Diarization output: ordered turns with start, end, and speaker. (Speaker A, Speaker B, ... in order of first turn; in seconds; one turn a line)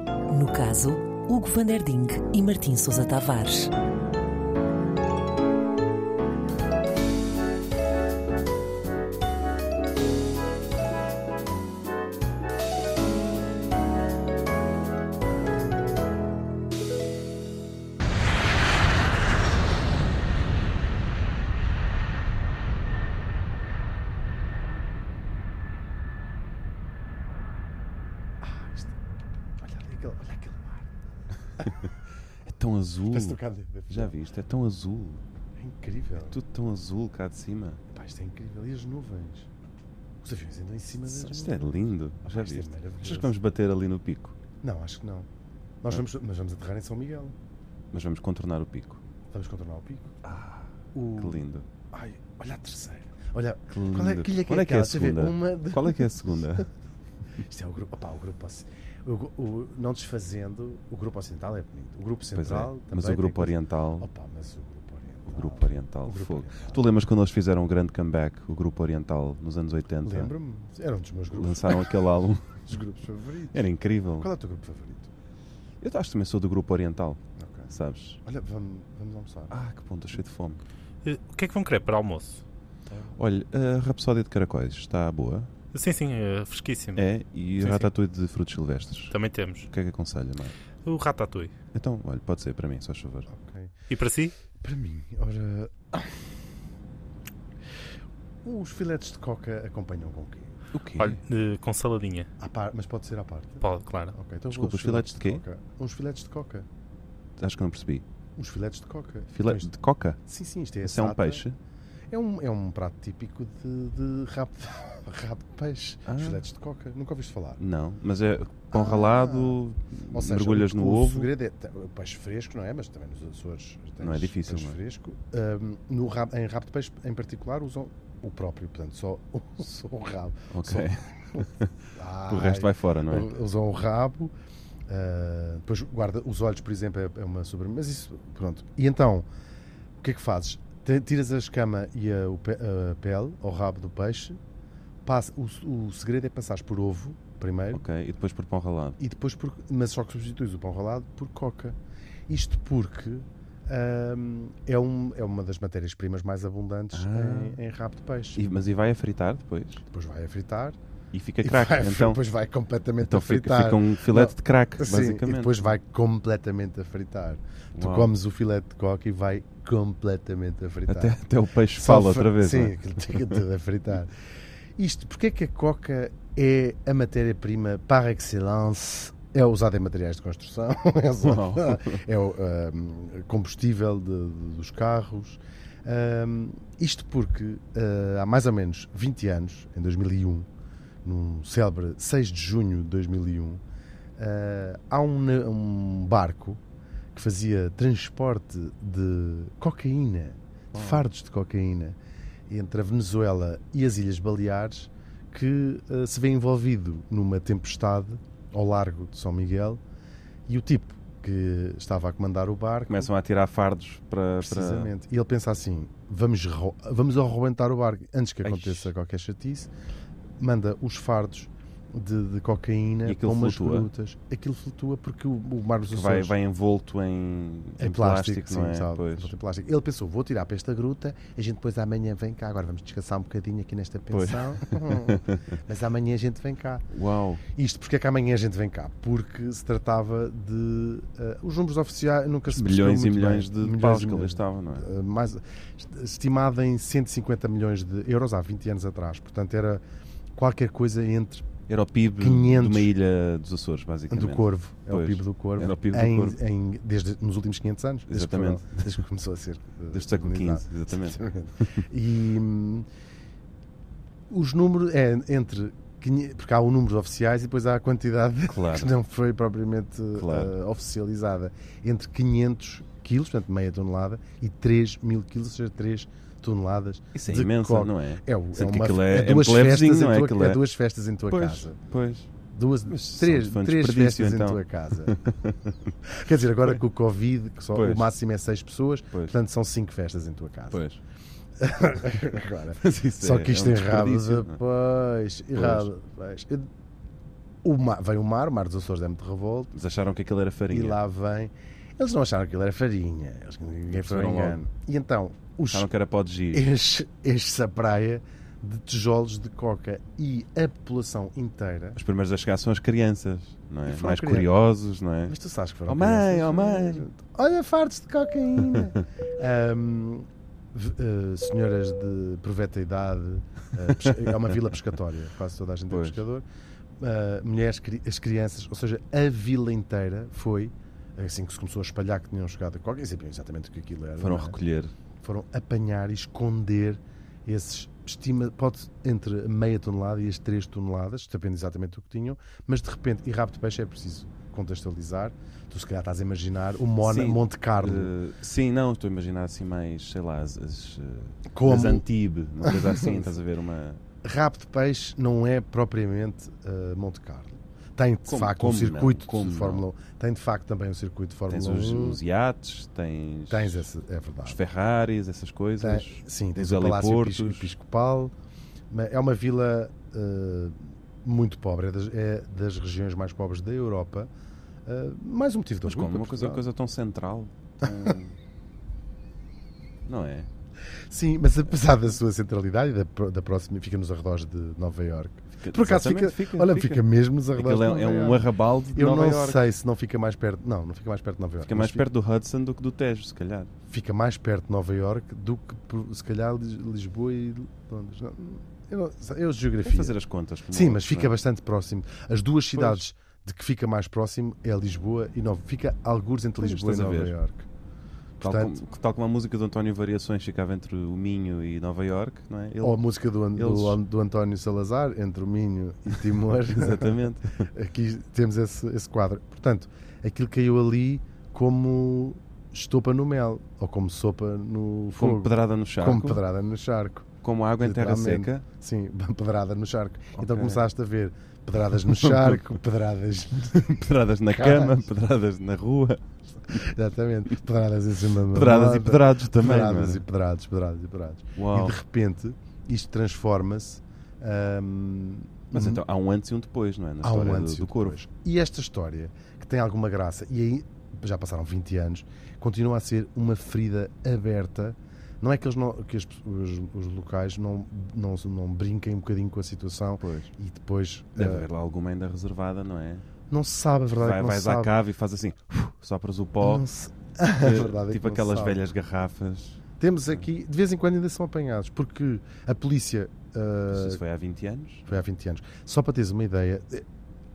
Speaker A: 0.3-3.7
Speaker B: 28.4-28.9
Speaker B: 29.6-30.9
Speaker C: 31.6-31.9
Speaker C: 32.4-33.4
Speaker B: 33.1-34.1
Speaker C: 33.9-35.2
Speaker B: 35.6-36.4
Speaker C: 36.2-37.8
Speaker B: 37.9-39.5
Speaker B: 40.2-43.3
Speaker C: 41.1-44.3
Speaker B: 44.6-45.3
Speaker B: 45.8-47.3
Speaker C: 47.9-49.0
Speaker B: 49.3-50.1
Speaker C: 50.2-51.7
Speaker B: 50.9-56.6
Speaker C: 53.7-56.6
Speaker B: 57.4-66.8
Speaker C: 62.3-64.0
Speaker C: 65.3-70.3
Speaker B: 70.0-71.9
Speaker C: 71.3-72.5
Speaker B: 72.7-73.7
Speaker C: 73.5-74.3
Speaker B: 74.2-75.1
Speaker C: 75.8-78.2
Speaker B: 77.4-77.7
Speaker B: 78.2-79.5
Speaker C: 79.5-80.6
Speaker D: 81.0-82.4
Speaker B: 82.9-83.1
Speaker C: 83.1-85.5
Speaker D: 85.7-87.0
Speaker C: 87.0-89.1
Speaker D: 87.6-87.9
Speaker D: 89.1-89.7
Speaker C: 89.7-90.5
Speaker D: 90.8-91.5
Speaker C: 91.7-93.3
Speaker B: 93.3-93.7
Speaker D: 93.9-94.3
Speaker B: 94.6-96.3
Speaker B: 98.4-100.6
Speaker C: 100.7-101.2
Speaker D: 101.0-102.3
Speaker B: 102.4-106.7
Speaker D: 103.6-104.1
Speaker C: 104.5-105.4
Speaker C: 107.4-108.0
Speaker B: 108.4-111.4
Speaker C: 109.3-110.2
Speaker C: 110.8-111.5
Speaker B: 112.1-117.6
Speaker C: 116.0-116.4
Speaker C: 117.6-121.3
Speaker B: 118.7-119.6
Speaker B: 120.1-134.3
Speaker C: 124.0-124.8
Speaker C: 130.5-131.7
Speaker C: 132.3-133.3
Speaker B: 134.9-139.3
Speaker B: 140.0-144.4
Speaker B: 145.0-147.8
Speaker C: 147.7-149.0
Speaker B: 149.0-151.8
Speaker B: 152.3-158.4
Speaker C: 156.9-157.6
Speaker C: 158.3-159.8
Speaker B: 159.9-160.8
Speaker C: 161.1-162.2
Speaker B: 161.4-171.2
Speaker C: 163.0-165.7
Speaker C: 167.7-168.1
Speaker C: 170.9-173.2
Speaker B: 171.7-174.1
Speaker B: 174.8-190.5
Speaker C: 181.2-182.0
Speaker B: 191.0-193.6
Speaker B: 194.2-196.6
Speaker B: 197.1-209.8
Speaker C: 200.7-201.0
Speaker B: 210.5-213.1
Speaker C: 212.9-214.9
Speaker B: 214.4-219.7
Speaker C: 218.4-218.9
Speaker B: 220.4-226.3
Speaker C: 223.0-223.9
Speaker C: 225.8-229.3
Speaker B: 227.8-236.8
Speaker C: 234.1-235.4
Speaker C: 236.9-237.4
Speaker B: 237.5-249.8
Speaker C: 242.5-244.8
Speaker B: 250.3-251.5
Speaker C: 251.7-256.4
Speaker B: 252.2-252.9
Speaker B: 254.1-262.9
Speaker C: 258.1-259.0
Speaker C: 259.9-261.2
Speaker B: 264.3-281.8
Speaker C: 268.5-268.9
Speaker C: 270.1-270.5
Speaker C: 277.1-280.6
Speaker C: 281.3-282.3
Speaker B: 282.5-285.2
Speaker C: 282.9-285.9
Speaker B: 286.0-290.8
Speaker C: 287.7-288.1
Speaker C: 290.7-291.0
Speaker B: 291.6-296.7
Speaker C: 292.8-294.6
Speaker C: 295.5-295.9
Speaker B: 297.6-299.7
Speaker C: 299.7-301.0
Speaker B: 300.7-305.9
Speaker C: 303.9-304.6
Speaker C: 305.7-306.6
Speaker B: 306.5-312.0
Speaker C: 311.9-315.3
Speaker B: 313.9-314.5
Speaker B: 315.3-326.4
Speaker C: 315.9-317.0
Speaker C: 324.0-324.3
Speaker C: 325.9-326.2
Speaker B: 327.0-334.6
Speaker C: 334.2-334.9
Speaker B: 335.2-348.1
Speaker C: 347.0-354.0
Speaker B: 351.5-352.1
Speaker B: 352.6-353.3
Speaker B: 354.2-362.2
Speaker C: 358.3-359.8
Speaker C: 361.5-363.8
Speaker B: 363.5-364.6
Speaker C: 364.4-367.7
Speaker B: 365.8-368.3
Speaker B: 368.9-374.3
Speaker B: 374.9-376.6
Speaker C: 375.8-378.4
Speaker C: 380.0-380.5
Speaker B: 381.1-392.1
Speaker C: 385.6-389.7
Speaker C: 391.6-393.7
Speaker B: 393.9-400.1
Speaker C: 399.8-401.3
Speaker B: 400.7-407.7
Speaker C: 402.7-403.0
Speaker C: 406.6-407.3
Speaker B: 408.4-408.8
Speaker C: 408.4-413.0
Speaker B: 412.8-427.3
Speaker C: 413.5-414.0
Speaker C: 416.6-417.6
Speaker C: 425.2-426.4
Speaker C: 427.4-428.6
Speaker B: 427.8-435.0
Speaker C: 430.4-430.8
Speaker C: 432.0-432.6
Speaker C: 433.7-436.8
Speaker B: 436.7-446.0
Speaker C: 438.5-440.2
Speaker C: 441.6-442.0
Speaker C: 445.7-448.2
Speaker B: 447.2-461.7
Speaker C: 460.2-460.5
Speaker C: 461.4-463.2
Speaker B: 463.5-464.9
Speaker C: 464.2-466.9
Speaker B: 466.6-468.8
Speaker C: 467.6-470.4
Speaker B: 470.0-474.2
Speaker C: 473.9-475.1
Speaker B: 475.1-477.0